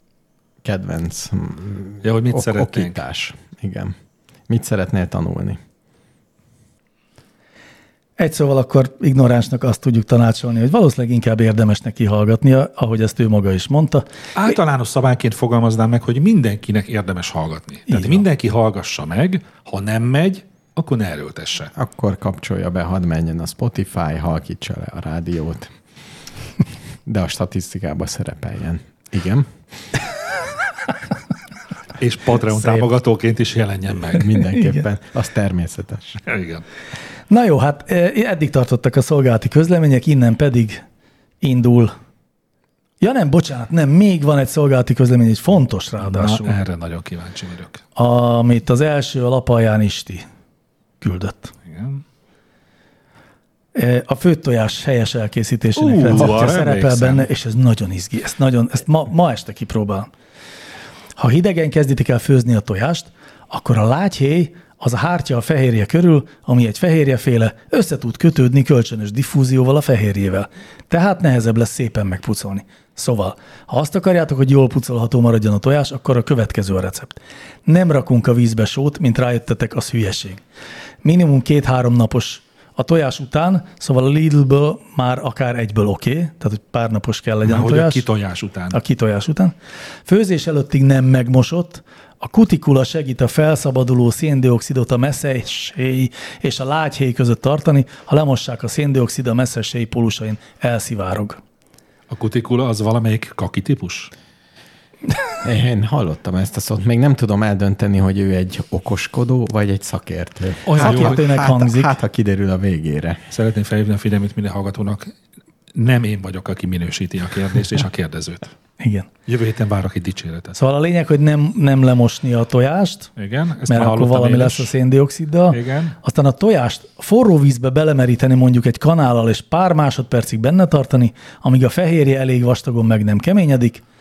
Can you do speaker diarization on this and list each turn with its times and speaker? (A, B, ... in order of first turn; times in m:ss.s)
0:00.6-0:03.9 A
0:02.0-0:03.0 B
0:04.5-0:05.6 A
0:08.2-0:14.5 C
0:14.4-0:21.7 B
0:17.9-0:18.2 C
0:21.7-0:25.7 A
0:27.0-0:29.5 A
0:32.0-0:34.3 B
0:34.1-0:36.2 A
0:34.5-0:34.8 C
0:36.2-0:36.6 B
0:37.3-0:40.8 C
0:41.4-0:41.9 C
0:43.0-0:46.5 C
0:46.0-0:47.8 B
0:48.0-0:50.2 C
0:51.0-0:51.5 C
0:51.7-0:52.0 B
0:53.7-1:00.1 C
0:55.8-0:57.3 B
0:56.2-0:56.5 A
1:01.2-1:20.4 C
1:21.0-1:28.0 C
1:27.4-1:28.8 B
1:28.7-1:29.5 C
1:30.1-1:41.4 C
1:42.1-1:44.1 B
1:45.4-1:53.2 A
1:50.6-1:51.2 B
1:50.8-1:52.0 C
1:53.3-1:55.1 B
1:55.7-1:58.5 B
1:58.8-1:59.1 C
1:59.3-2:00.6 B
2:00.6-2:03.1 C
2:03.2-2:04.7 B
2:03.7-2:13.8 C
2:05.5-2:06.0 B